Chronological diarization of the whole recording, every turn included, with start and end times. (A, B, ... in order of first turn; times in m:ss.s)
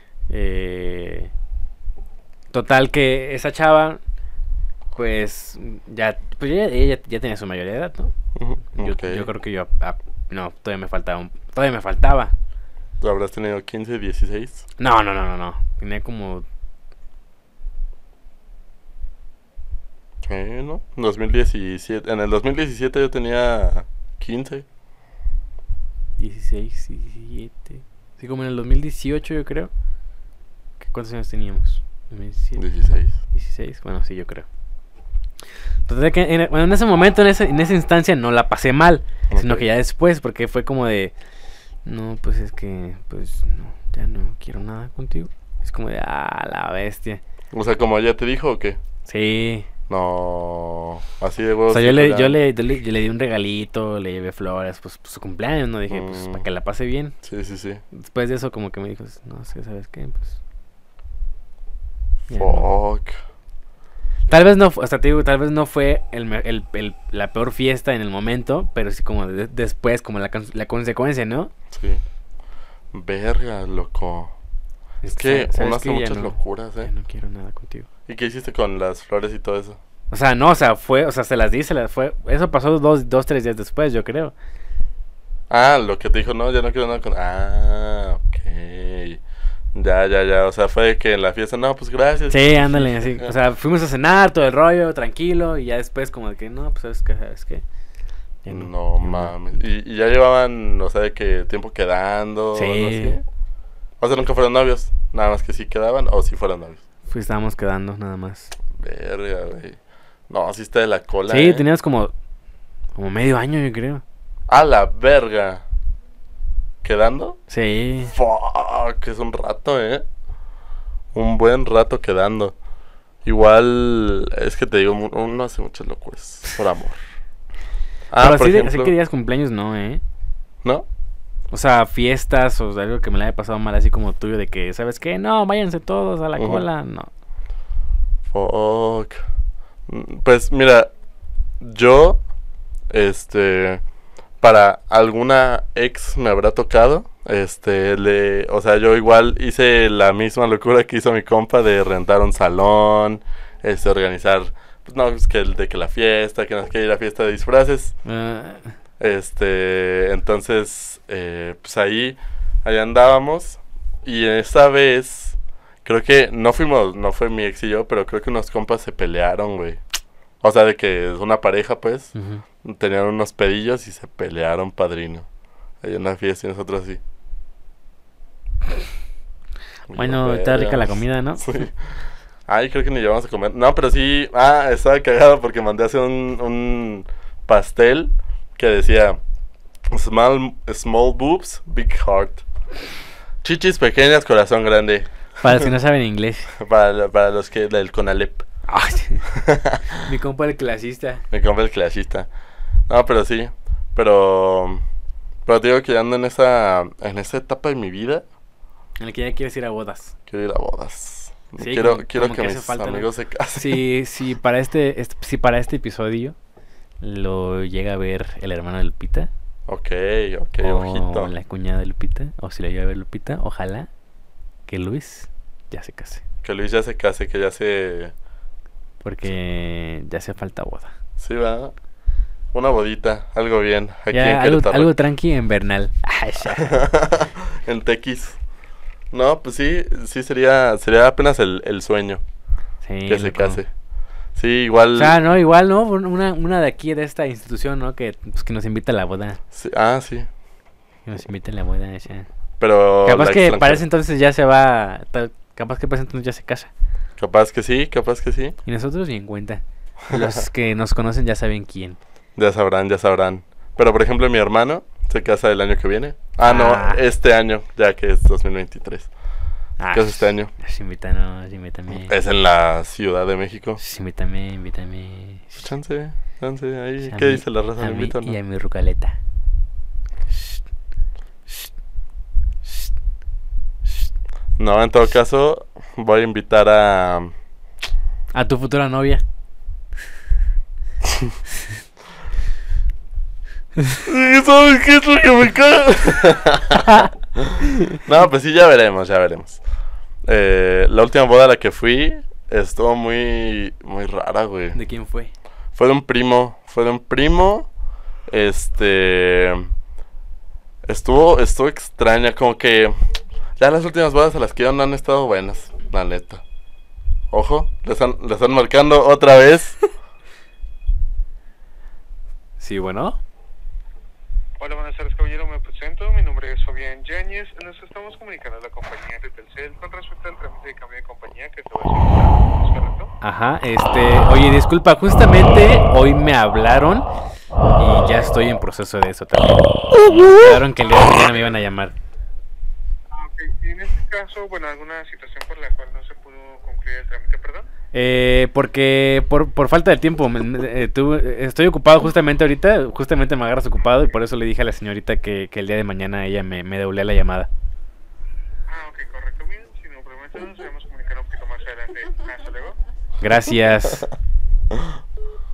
0:00.3-0:01.3 A
0:02.5-0:04.0 A
0:04.9-0:08.1 A
0:08.4-0:09.3 B
0:08.7-0:12.3 A
0:13.0-0:14.6 B
0:14.8-0:16.4 A
0:20.2-0:24.6 B
0:26.2-0:29.7 A
0:30.8-0:32.6 A
0:32.6-0:33.2 B
0:33.3-0:34.4 A
0:35.9-0:41.1 A
0:39.3-0:39.6 B
0:41.8-0:47.2 A
0:47.5-0:48.8 B
0:49.0-0:49.7 A
0:49.9-0:52.4 B
0:51.7-0:57.1 A
0:55.9-0:56.4 B
0:57.2-0:57.8 B
0:57.9-1:00.4 A
1:02.3-1:02.7 A
1:02.3-1:03.2 B
1:04.3-1:11.5 A
1:11.7-1:12.0 B
1:12.9-1:14.3 B
1:15.0-1:17.9 A
1:15.1-1:16.9 B
1:18.1-1:19.8 B
1:20.1-1:24.3 A
1:25.5-1:29.2 B
1:29.7-1:33.3 B
1:32.3-1:37.6 A
1:38.4-1:39.3 A
1:38.5-1:43.2 B
1:42.5-1:43.2 A
1:44.0-1:46.8 B
1:47.1-1:48.5 A
1:48.7-1:49.8 B
1:50.3-1:51.6 B
1:51.3-1:52.1 A
1:52.9-1:54.0 A
1:54.5-1:55.6 B
1:56.8-1:57.4 B
1:57.5-1:58.1 A
1:58.1-2:00.0 B
2:01.1-2:02.5 B
2:03.2-2:07.0 B
2:08.1-2:08.9 B
2:08.2-2:10.0 A
2:11.5-2:17.1 A
2:16.4-2:16.6 B
2:18.3-2:19.2 B
2:19.9-2:20.9 B
2:21.6-2:22.2 B
2:22.9-2:23.8 B
2:24.4-2:37.9 B
2:38.0-2:38.7 A
2:39.0-2:49.8 B
2:50.4-2:55.3 B
2:52.1-2:52.4 A
2:55.8-2:57.0 B
2:59.9-3:09.2 B
2:59.9-3:01.6 A
3:09.9-3:12.4 B
3:13.4-3:15.7 B
3:15.4-3:16.5 A
3:16.5-3:18.4 B
3:18.7-3:19.3 A
3:19.3-3:20.0 B
3:20.0-3:21.2 A
3:21.3-3:22.3 B
3:22.9-3:24.8 B
3:25.4-3:28.2 B
3:29.0-3:30.1 A
3:30.3-3:33.8 B
3:31.6-3:36.4 A
3:37.0-3:39.3 A
3:39.7-3:41.3 B
3:40.6-3:43.9 A
3:44.7-3:46.2 A
3:46.4-3:48.1 B
3:49.0-3:50.9 A
3:51.2-3:51.7 B
3:52.5-3:54.9 B
3:54.1-3:56.8 A
3:56.6-3:58.4 B
3:59.1-4:02.2 B
4:02.8-4:03.6 A
4:03.1-4:03.7 B
4:04.4-4:05.2 B
4:05.0-4:09.4 A
4:09.5-4:10.3 B
4:11.0-4:12.3 A
4:12.6-4:13.8 B
4:13.0-4:16.7 A
4:17.2-4:18.6 B
4:18.6-4:22.0 A
4:20.1-4:20.4 B
4:22.4-4:29.1 B
4:26.4-4:27.0 A
4:29.8-4:32.1 A
4:29.9-4:30.5 B
4:32.0-4:33.8 B
4:33.8-4:35.6 A
4:35.6-4:38.4 B
4:37.0-4:39.2 A
4:40.3-4:40.6 A
4:42.6-4:42.9 A
4:44.6-4:47.3 B
4:48.3-4:49.2 A
4:54.0-4:59.6 B
5:00.2-5:04.8 B
5:04.7-5:05.3 A
5:05.7-5:07.7 B
5:08.3-5:09.7 B
5:10.8-5:12.9 B
5:13.6-5:16.4 B
5:17.3-5:19.8 B
5:22.6-5:23.2 A
5:24.6-5:33.1 C
5:33.2-5:37.1 A
5:37.8-5:41.9 A
5:40.1-5:40.5 B
5:43.1-5:47.7 C
5:47.9-5:57.5 A
5:58.7-6:02.8 C
6:03.2-6:04.1 A